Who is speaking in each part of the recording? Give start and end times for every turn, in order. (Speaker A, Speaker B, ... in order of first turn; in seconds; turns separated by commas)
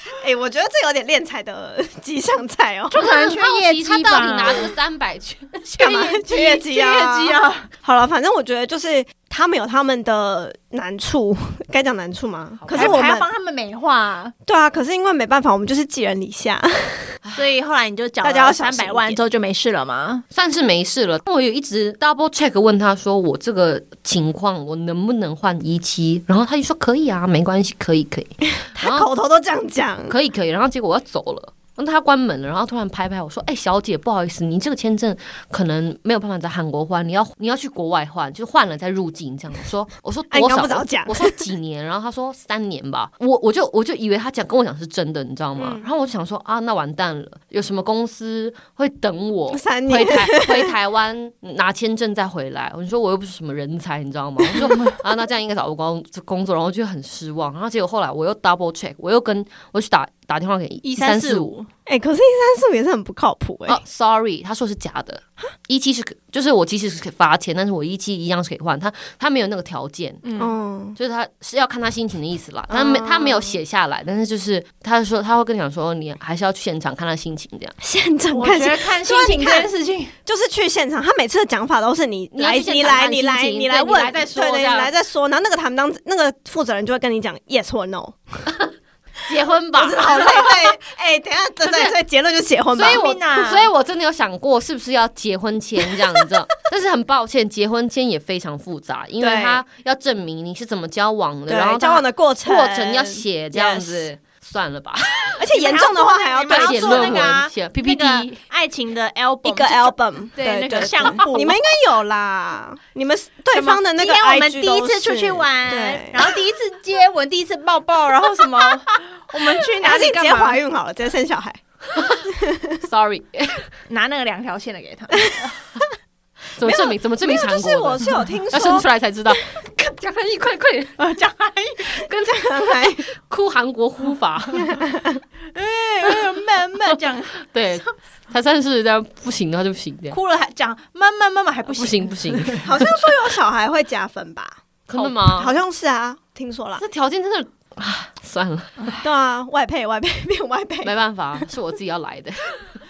Speaker A: 0.1-3.0, Speaker B: 2.9-4.7, Speaker C: 2.9-6.1, Speaker A: 5.8-13.3, Speaker B: 5.8-7.7, Speaker C: 12.6-13.0, Speaker B: 12.7-14.3, Speaker A: 14.4-17.1, Speaker B: 17.4-20.2, Speaker A: 18.2-19.2, Speaker C: 20.3-29.1, Speaker A: 28.7-30.1, Speaker C: 30.1-61.5, Speaker A: 40.3-41.4, Speaker A: 45.5-45.9, Speaker A: 49.5-50.7, Speaker B: 60.8-61.7, Speaker A: 61.9-63.8, Speaker C: 63.7-70.2, Speaker B: 70.2-70.5, Speaker A: 70.4-71.0, Speaker C: 71.0-77.7, Speaker A: 72.7-73.6, Speaker A: 77.8-79.7, Speaker B: 78.3-80.1, Speaker A: 80.2-88.4, Speaker C: 82.3-84.9, Speaker C: 89.2-90.4, Speaker A: 89.8-93.0, Speaker B: 90.1-90.5, Speaker C: 91.6-91.9, Speaker B: 92.7-93.7, Speaker C: 92.7-105.3, Speaker A: 99.2-99.6, Speaker A: 101.5-104.1, Speaker A: 105.3-107.3, Speaker B: 105.4-111.6, Speaker C: 106.5-108.4, Speaker A: 109.4-116.4, Speaker B: 113.5-120.6, Speaker A: 119.3-121.6, Speaker C: 121.9-122.2, Speaker A: 122.2-122.8, Speaker C: 122.8-123.7, Speaker B: 123.9-125.5, Speaker A: 125.2-125.5, Speaker C: 126.6-131.0, Speaker A: 126.6-128.9, Speaker B: 131.0-132.0, Speaker C: 132.0-134.8, Speaker A: 132.0-133.1, Speaker A: 134.6-135.2, Speaker B: 135.5-137.4, Speaker C: 137.4-140.2, Speaker B: 140.1-142.7, Speaker C: 141.7-142.8, Speaker A: 142.6-146.8, Speaker C: 144.9-145.5, Speaker C: 146.8-148.9, Speaker A: 149.0-151.4, Speaker C: 150.8-152.8